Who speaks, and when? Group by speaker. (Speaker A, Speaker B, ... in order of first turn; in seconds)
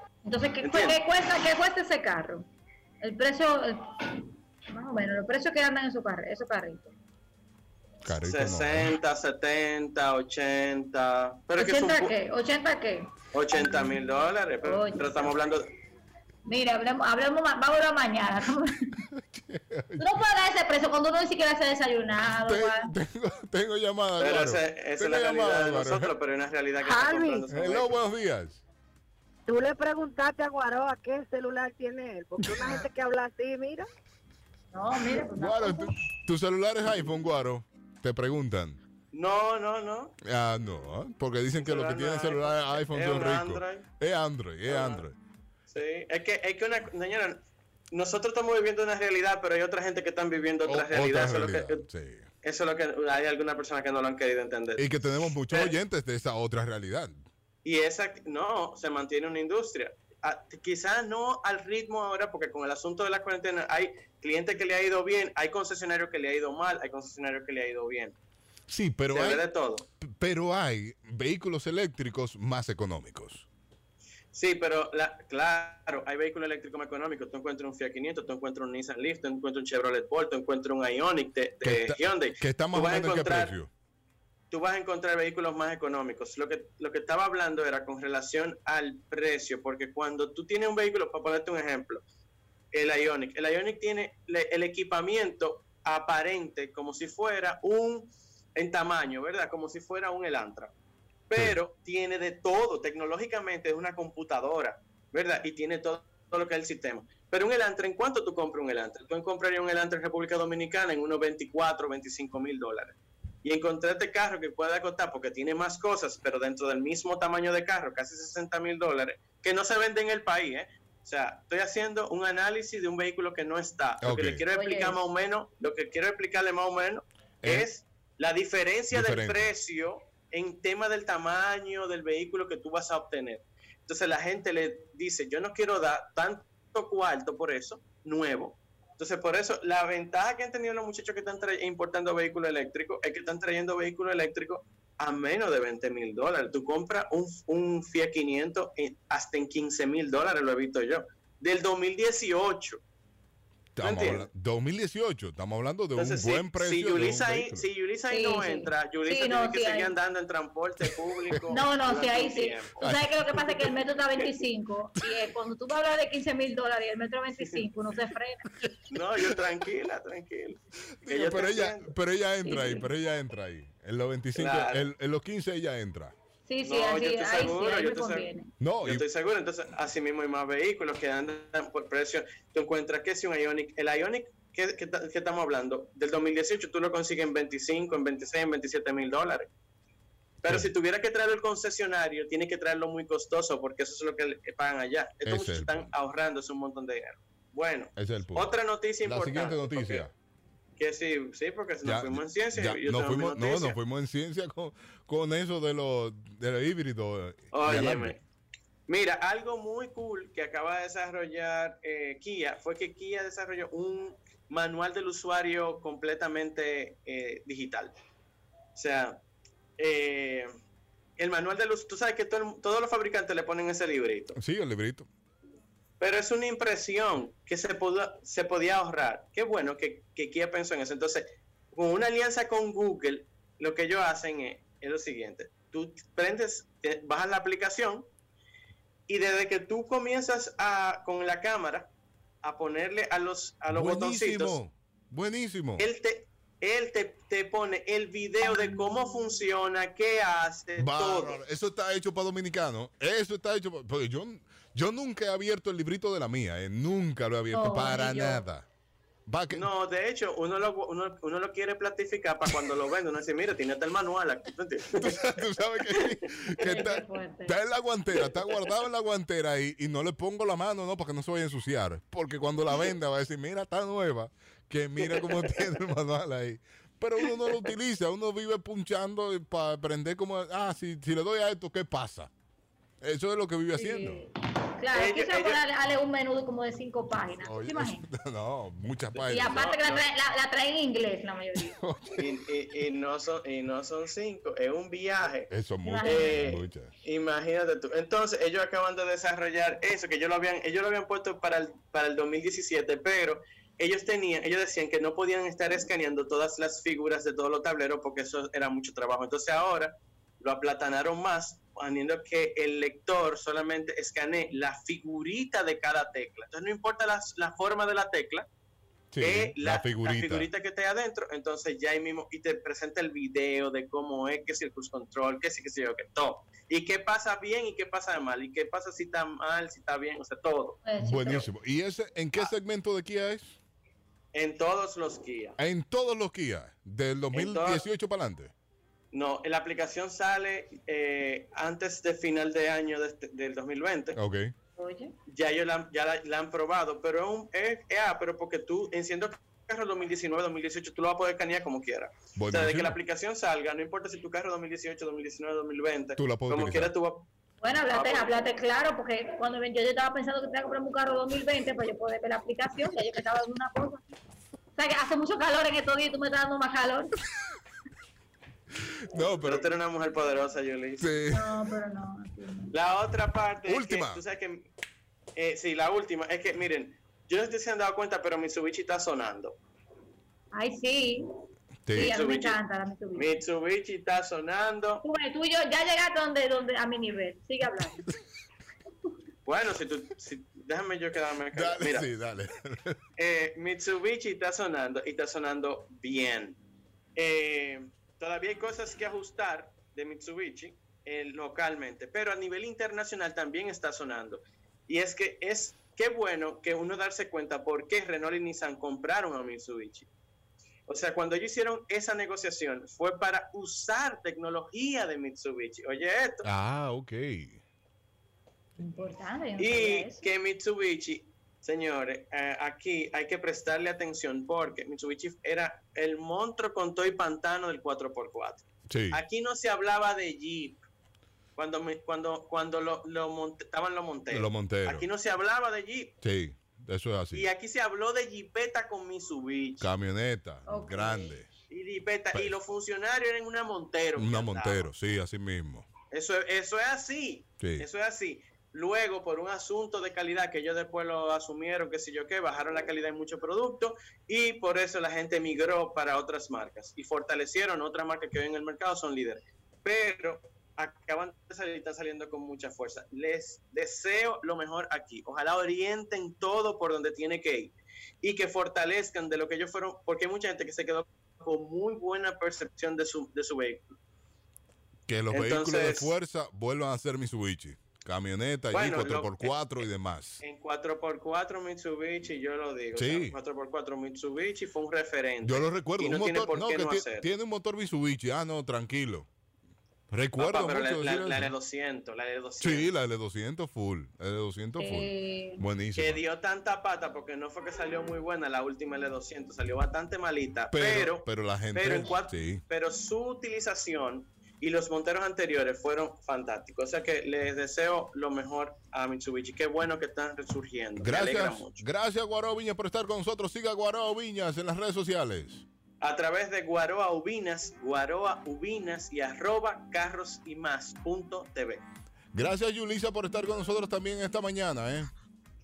Speaker A: 0.2-2.4, 3.0-6.9, 11.6-14.0, 14.6-15.3, 16.5-19.0, 20.0-22.9, 34.7-35.9, 124.5-125.0, 158.1-159.9, 161.5-168.4, 172.4-172.9, 176.5-178.5, 257.5-258.4, 266.6-267.6, 283.8-288.1, 289.3-291.8, 295.8-296.6, 330.8-331.5, 344.8-345.1, 357.6-364.1, 364.8-367.1, 371.3-372.7, 380.5-381.4, 381.9-383.4, 385.0-388.1, 418.8-420.2, 440.7-441.3, 494.8-495.6
Speaker B: 0.6-1.0, 8.1-12.1, 13.3-15.7, 24.2-27.9, 39.1-40.1, 41.5-43.9, 44.7-45.0, 45.7-47.4, 47.9-51.9, 52.4-55.7, 57.6-68.1, 69.1-69.8, 74.3-83.5, 84.5-92.0, 92.7-100.7, 101.3-152.8, 153.8-154.3, 155.9-162.8, 168.9-171.9, 174.3-174.8, 176.6-178.2, 178.8-189.5, 190.4-200.1, 200.8-203.8, 207.5-208.2, 208.9-217.9, 218.8-219.2, 219.8-220.5, 221.2-224.4, 226.0-238.1, 239.1-241.9, 242.4-244.6, 245.8-251.4, 259.5-265.4, 275.1-275.5, 284.9-285.6, 289.2-290.0, 292.2-295.5, 296.0-318.4, 319.2-330.8, 334.3-335.6, 337.3-337.8, 339.1-344.2, 345.3-357.3, 357.9-358.4, 369.3-371.1, 372.7-374.7, 375.4-379.6, 382.0-382.6, 383.1-385.0, 389.4-392.1, 393.2-396.6, 397.1-410.1, 410.9-416.4, 419.6-430.8, 431.6-436.1, 437.3-439.9, 441.7-444.9, 446.1-467.7, 468.2-473.9, 475.3-476.1, 478.7-479.8, 480.4-487.3, 490.4-492.9, 496.0-511.8, 516.0-521.8
Speaker C: 8.0-8.9, 19.2-20.0, 22.4-26.1, 27.5-28.6, 32.4-32.8, 35.1-38.8, 40.2-45.1, 50.7-52.3, 54.8-57.2, 68.7-69.4, 70.0-73.5, 81.6-83.7, 124.0-124.4, 127.4-127.7, 128.9-129.5, 153.8-157.7, 162.8-163.7, 171.0-176.1, 178.6-179.0, 190.4-190.7, 195.2-195.9, 198.0-198.5, 199.0-200.1, 201.8-208.2, 224.3-225.1, 243.7-245.9, 250.8-258.6, 259.3-259.7, 265.0-282.3, 283.0-284.2, 287.4-289.7, 291.8-292.3, 295.5-296.9, 319.1-320.5, 331.0-333.6, 335.6-338.5, 344.1-344.5, 352.4-353.0, 356.2-356.9, 369.1-369.6, 371.0-371.4, 373.7-374.2, 381.9-382.1, 391.5-393.0, 416.4-417.6, 428.9-429.2, 434.3-435.1, 436.2-437.5, 439.8-441.5, 444.2-445.9, 447.6-447.9, 475.1-480.4, 482.9-483.3, 485.4-489.3, 490.1-491.5, 492.6-496.2, 500.7-502.6, 511.0-515.6, 522.3-525.1
Speaker D: 26.8-27.4, 29.5-33.9